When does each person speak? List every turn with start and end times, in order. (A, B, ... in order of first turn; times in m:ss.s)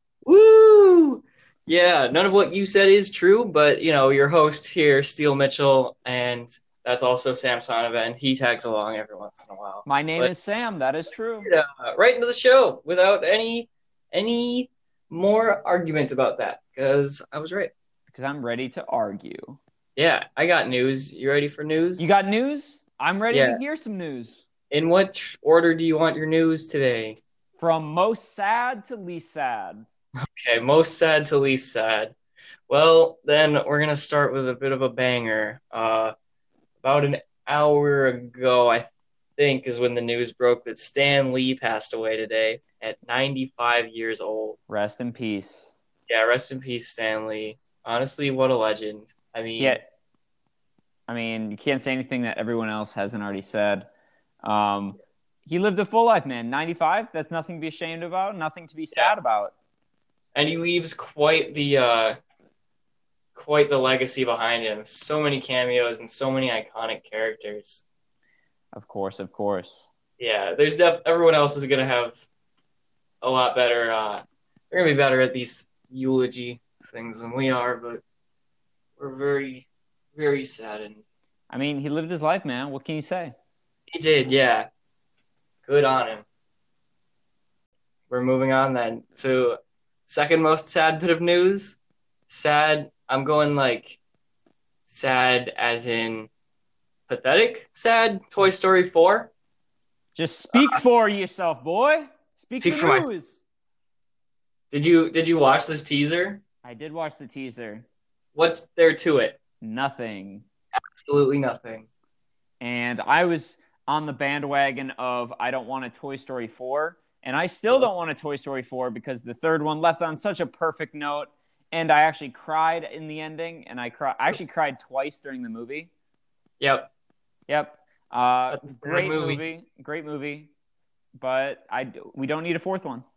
0:00.3-0:10.3 A
0:09.9-0:11.5 B
0:11.4-0:17.7 A
0:18.1-0:19.6 B
0:20.0-0:22.1 A
0:22.0-0:24.4 B
0:23.3-0:23.6 A
0:24.7-0:27.2 A
0:27.6-0:29.8 B
0:30.2-0:32.1 A
0:32.7-0:36.1 A
0:36.8-0:44.6 A
0:44.7-0:45.7 B
0:46.1-0:49.8 A
0:51.1-0:53.9 B
0:54.4-0:59.5 B
0:58.9-0:59.2 A
1:00.4-1:02.2 A
1:03.4-1:07.8 A
1:08.7-1:09.9 B
1:10.2-1:12.2 A
1:13.2-1:18.0 A
1:19.0-1:21.0 A
1:21.5-1:23.3 B
1:23.9-1:24.7 A
1:25.6-1:26.2 A
1:28.1-1:34.0 A
1:34.9-1:36.3 A
1:37.1-1:39.3 A
1:40.2-1:43.4 B
1:40.6-1:40.8 A
1:42.6-1:43.1 A
1:44.7-1:46.4 A
1:46.6-1:47.8 B
1:48.4-1:49.4 A
1:49.6-1:50.4 B
1:50.7-1:51.9 A
1:52.6-2:05.9 B
2:06.6-2:06.9 A
2:07.5-2:10.5 B
2:08.5-2:09.4 A
2:11.2-2:13.0 B